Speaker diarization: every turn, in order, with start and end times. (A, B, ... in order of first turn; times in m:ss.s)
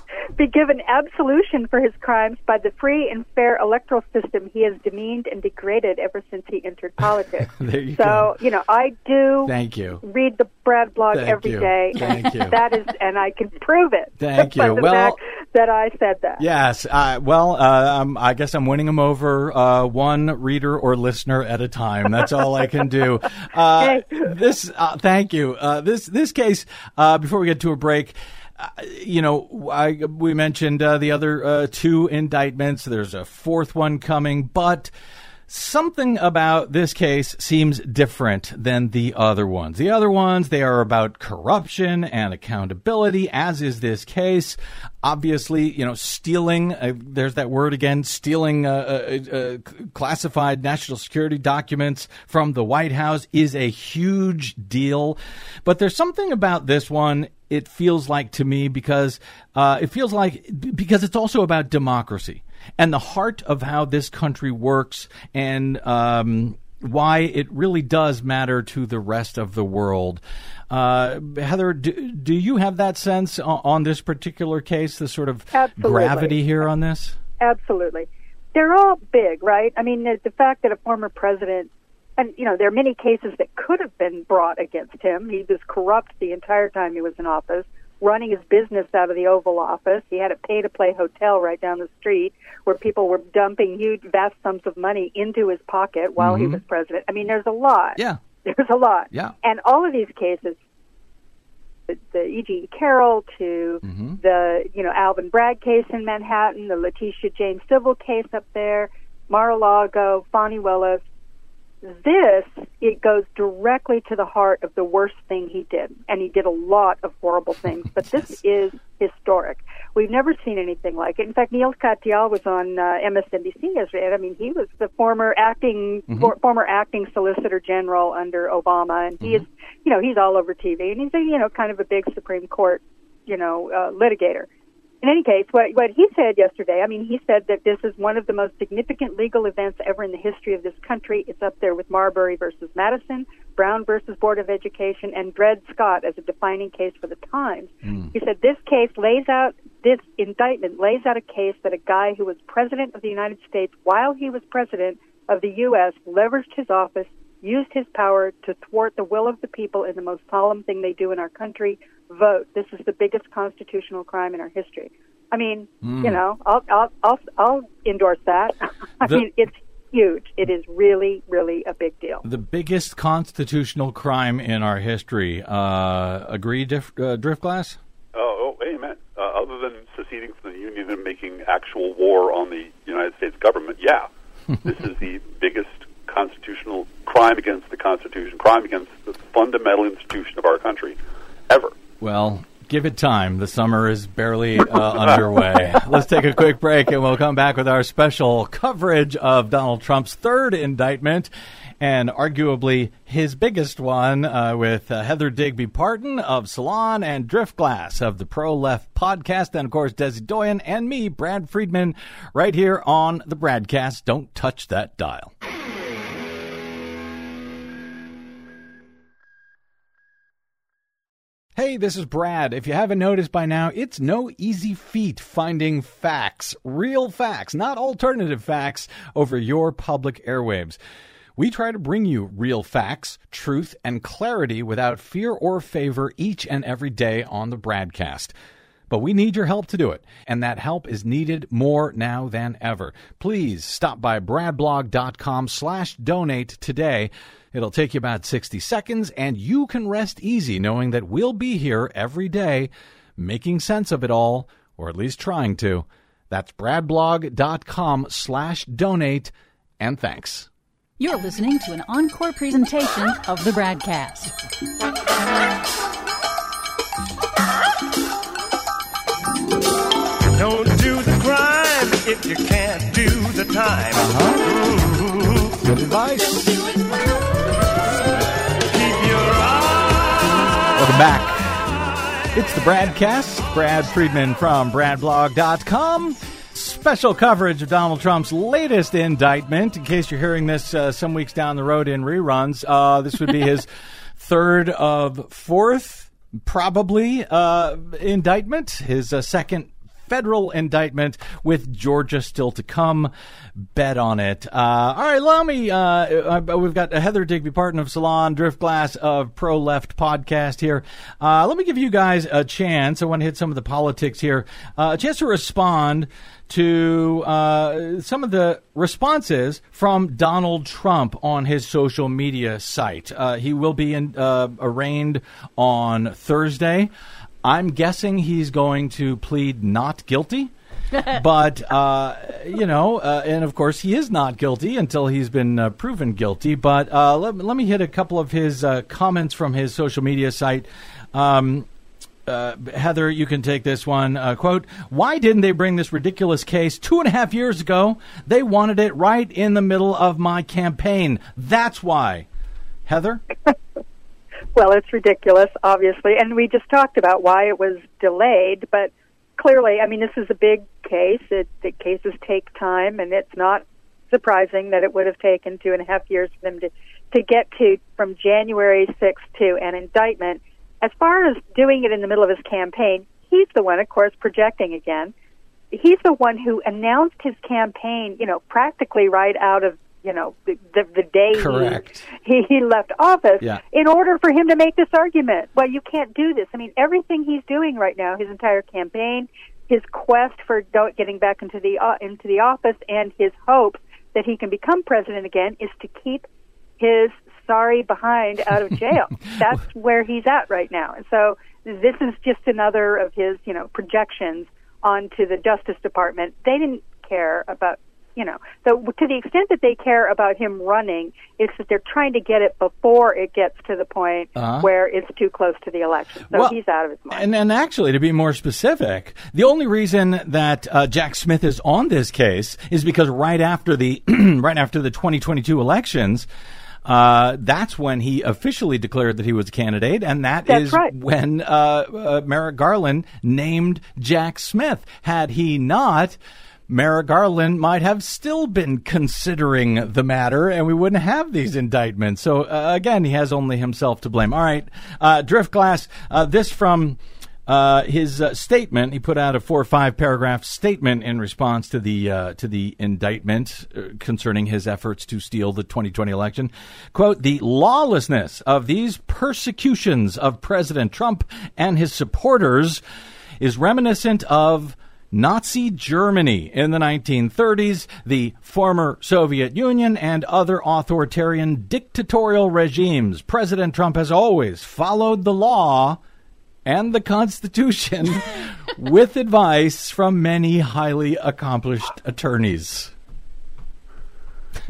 0:00.4-0:16.4 A
0:07.5-0:08.3 B
0:09.4-0:10.0 B
0:11.1-0:12.6 B
0:14.2-0:15.2 B
0:16.4-0:34.9 B
0:23.8-0:24.3 A
0:35.5-1:17.2 B
1:15.5-1:16.4 A
1:17.4-1:40.6 A
1:36.2-1:36.6 B
1:41.9-1:51.0 A
1:43.8-1:44.2 B
1:51.8-2:14.5 A
2:15.0-2:52.2 A
2:27.8-2:28.1 B
2:45.8-2:46.2 B
2:52.2-2:57.8 B
2:58.1-3:04.1 C
3:04.6-3:11.0 C
3:11.5-3:11.7 C
3:12.0-3:35.3 B
3:41.6-3:50.8 B
3:51.4-3:58.3 B
3:58.9-4:20.5 B
4:21.0-4:24.3 D
4:30.4-4:35.6 E
4:33.9-4:34.4 B
4:35.6-4:36.6 B
4:38.6-4:40.5 E
4:40.8-4:41.6 B
4:42.3-5:03.1 B
5:03.7-5:26.9 B
5:27.4-5:30.5 B
5:31.0-5:41.7 B
5:42.2-5:52.3 B
5:52.8-5:53.2 B
5:54.5-6:15.1 A
6:15.7-6:36.2 A
6:21.3-6:22.1 B
6:36.8-6:57.3 A
6:54.4-6:54.7 B
6:56.3-6:56.6 B
6:57.1-7:06.3 B
7:06.8-7:42.8 B
7:10.5-7:10.9 A
7:43.4-7:56.0 B
7:56.6-8:02.9 B